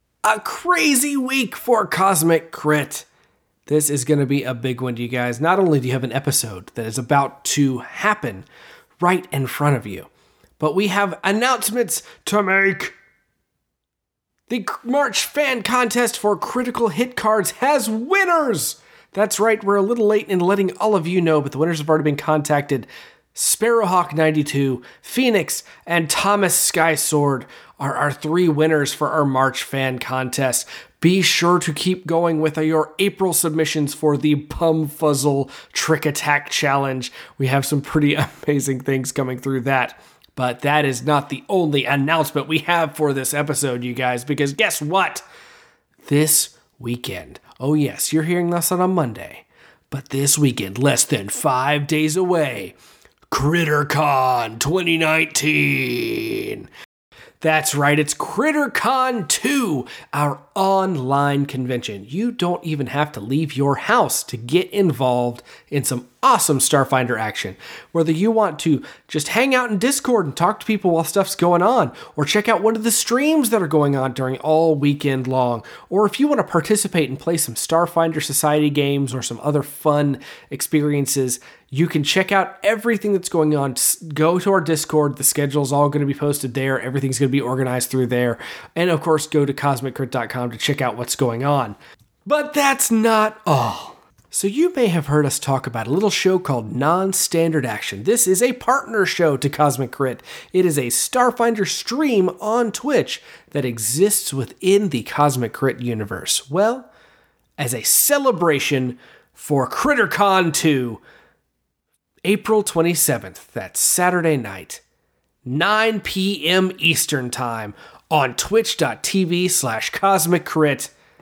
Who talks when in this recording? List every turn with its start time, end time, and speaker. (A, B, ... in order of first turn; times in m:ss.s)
0:00.2-0:03.1 A
0:03.7-0:08.5 A
0:09.0-0:13.0 A
0:14.5-0:45.2 A
0:46.0-0:52.8 A
0:53.3-0:56.7 A
0:57.4-1:46.9 A
1:47.6-1:51.0 A
1:52.2-1:54.8 A
1:55.4-2:00.9 A